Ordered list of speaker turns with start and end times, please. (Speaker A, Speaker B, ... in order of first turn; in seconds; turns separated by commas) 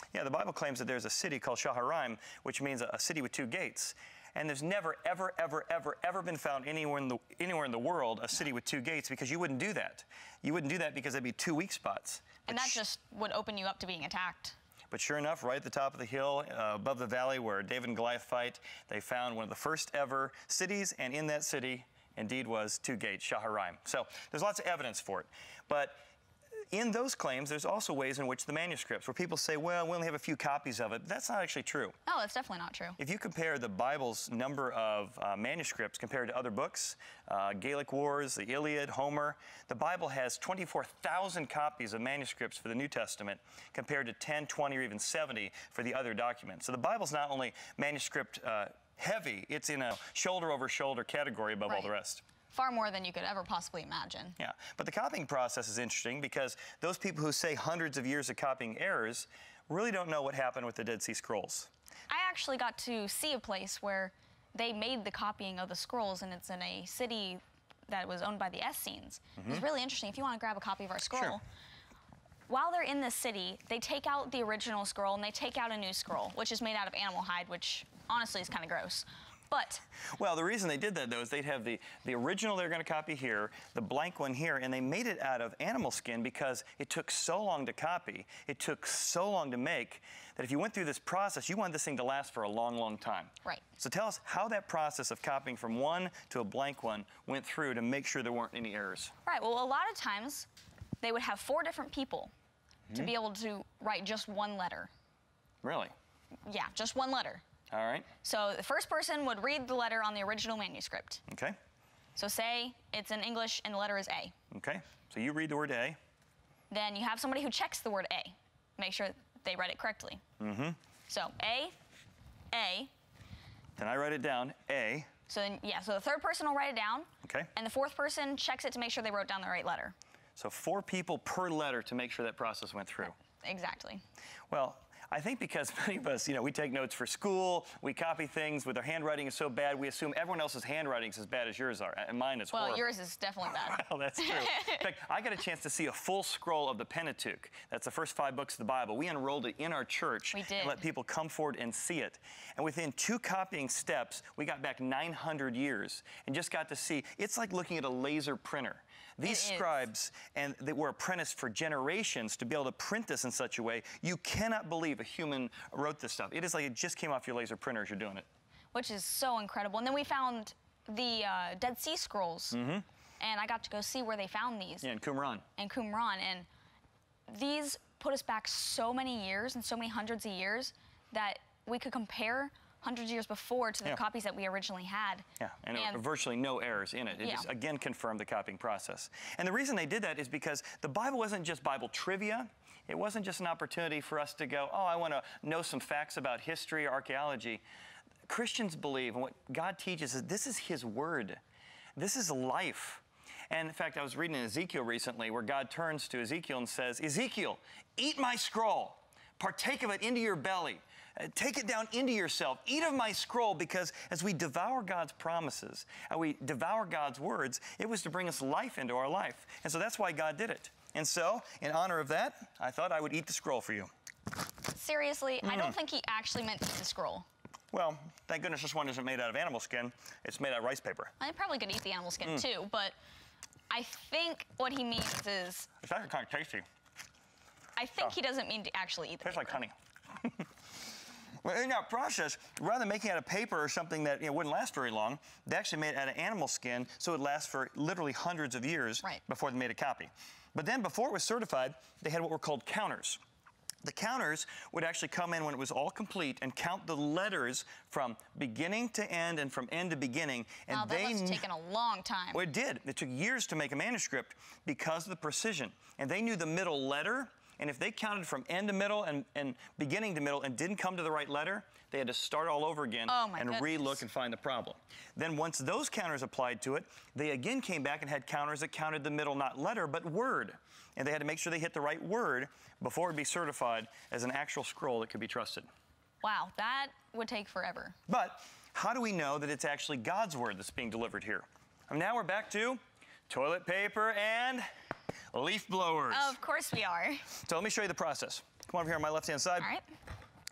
Speaker A: 0.1-12.8, Speaker B: 12.5-14.6, Speaker A: 14.9-26.0, Speaker A: 26.7-32.0, Speaker B: 32.1-33.0, Speaker A: 33.0-52.2, Speaker B: 52.5-54.4, Speaker A: 54.4-61.7, Speaker B: 62.1-71.4, Speaker A: 69.4-69.6, Speaker A: 71.1-71.4, Speaker B: 72.5-79.8, Speaker A: 80.1-99.1, Speaker B: 99.2-100.5, Speaker B: 101.0-102.3, Speaker B: 102.9-104.9, Speaker A: 105.6-105.9, Speaker B: 106.5-107.4, Speaker A: 107.7-108.1, Speaker B: 108.2-111.2, Speaker A: 111.3-111.6, Speaker B: 112.2-114.3, Speaker A: 114.5-116.0, Speaker B: 116.7-120.2, Speaker A: 120.4-120.8, Speaker B: 121.1-121.8, Speaker B: 122.5-122.9, Speaker A: 123.8-125.1, Speaker B: 125.3-129.9, Speaker A: 127.2-127.5, Speaker A: 130.4-133.2, Speaker B: 133.4-134.0, Speaker A: 134.5-142.9, Speaker B: 142.5-144.8, Speaker A: 143.4-168.3, Speaker B: 150.3-150.8, Speaker B: 159.2-159.9, Speaker B: 168.7-172.6, Speaker A: 172.5-172.8, Speaker B: 173.2-174.9, Speaker A: 174.8-175.4, Speaker B: 175.6-176.5, Speaker B: 177.3-186.0, Speaker A: 185.4-197.6, Speaker B: 187.2-187.5, Speaker A: 198.3-201.4, Speaker A: 202.0-223.9, Speaker B: 224.7-227.3, Speaker A: 225.4-225.8, Speaker A: 227.7-231.1, Speaker B: 231.2-232.9, Speaker B: 233.7-235.7, Speaker A: 235.8-236.7, Speaker B: 237.8-239.6, Speaker A: 239.2-240.5, Speaker A: 241.4-253.2, Speaker A: 253.8-261.4, Speaker B: 260.7-262.4, Speaker A: 262.3-285.7, Speaker B: 273.1-274.0, Speaker B: 286.2-288.0, Speaker A: 288.1-294.7, Speaker A: 295.3-296.3, Speaker B: 296.1-297.3, Speaker A: 297.4-299.7, Speaker B: 299.6-299.9